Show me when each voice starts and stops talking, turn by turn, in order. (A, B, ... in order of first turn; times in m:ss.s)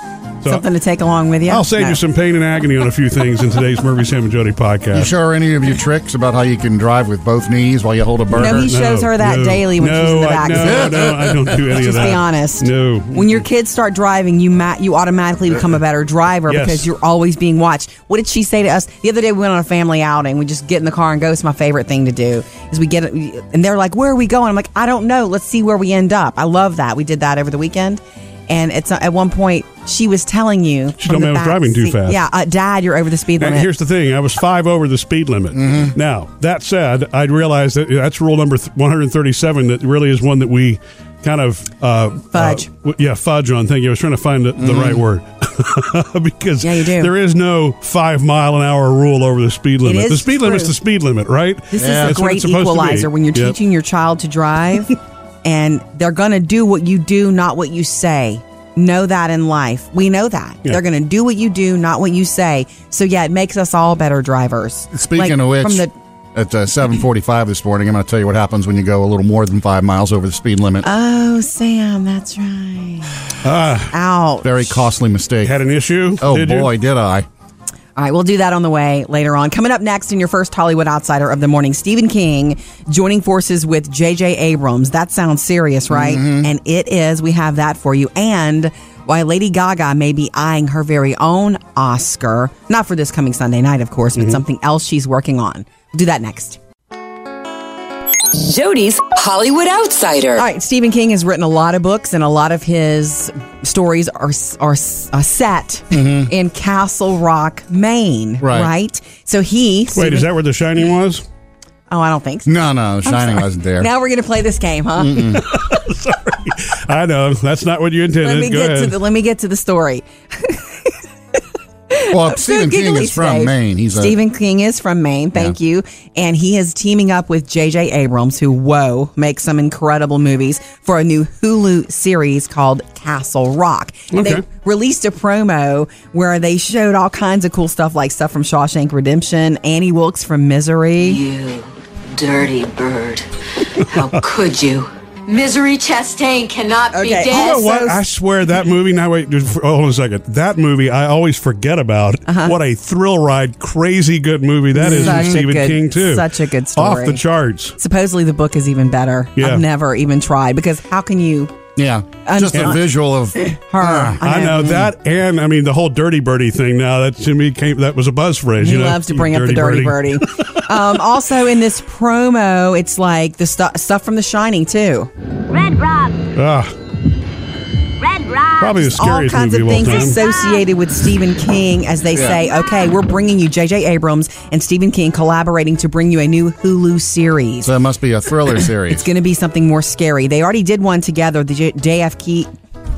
0:00.5-0:02.0 A
0:01.5-0:05.1 B
0:04.9-0:08.7 C
0:08.3-0:13.4 B
0:08.4-0:11.1 A
0:10.7-0:11.4 C
0:11.7-0:33.7 A
0:16.5-0:16.9 B
0:31.0-0:32.2 B
0:33.4-0:53.6 B
0:35.5-0:35.9 C
0:42.3-0:42.7 A
0:44.6-0:45.0 C
0:46.6-0:47.1 A
0:49.8-0:50.7 A
0:51.7-1:05.9 A
0:51.8-0:52.2 C
1:04.9-1:10.9 C
1:10.8-1:13.3 A
1:13.4-1:13.9 B
1:13.9-1:14.8 A
1:14.4-1:15.6 C
1:15.4-1:16.7 B
1:16.2-1:17.3 C
1:18.0-1:36.6 A
1:25.9-1:26.5 C
1:34.2-1:34.4 B
1:38.3-1:40.4 D
1:40.3-1:50.3 A
1:45.9-1:46.3 C
1:48.4-1:48.7 C
1:49.9-1:51.2 B
1:51.9-1:52.5 A
1:52.4-1:53.9 C
1:53.0-1:55.4 A
1:55.0-1:55.4 C
1:55.3-1:58.9 B
1:58.2-2:00.9 A
2:01.9-2:21.2 A
2:02.1-2:04.2 C
2:14.1-2:14.4 B
2:21.1-2:23.2 E
2:23.9-2:28.0 E
2:26.9-2:27.9 A
2:27.3-2:37.8 B
2:32.3-2:32.6 A
2:34.7-2:37.2 A
2:35.0-2:35.4 C
2:37.8-2:41.5 A
2:39.4-2:39.6 B
2:41.8-2:44.2 C
2:42.2-2:42.9 A
2:43.4-2:44.8 A
2:44.2-2:50.6 B
2:48.6-2:55.1 A
2:56.3-2:56.7 B
2:58.6-3:00.2 B
2:58.8-3:07.7 A
3:02.1-3:02.4 C
3:07.6-3:09.0 C
3:08.9-3:12.5 A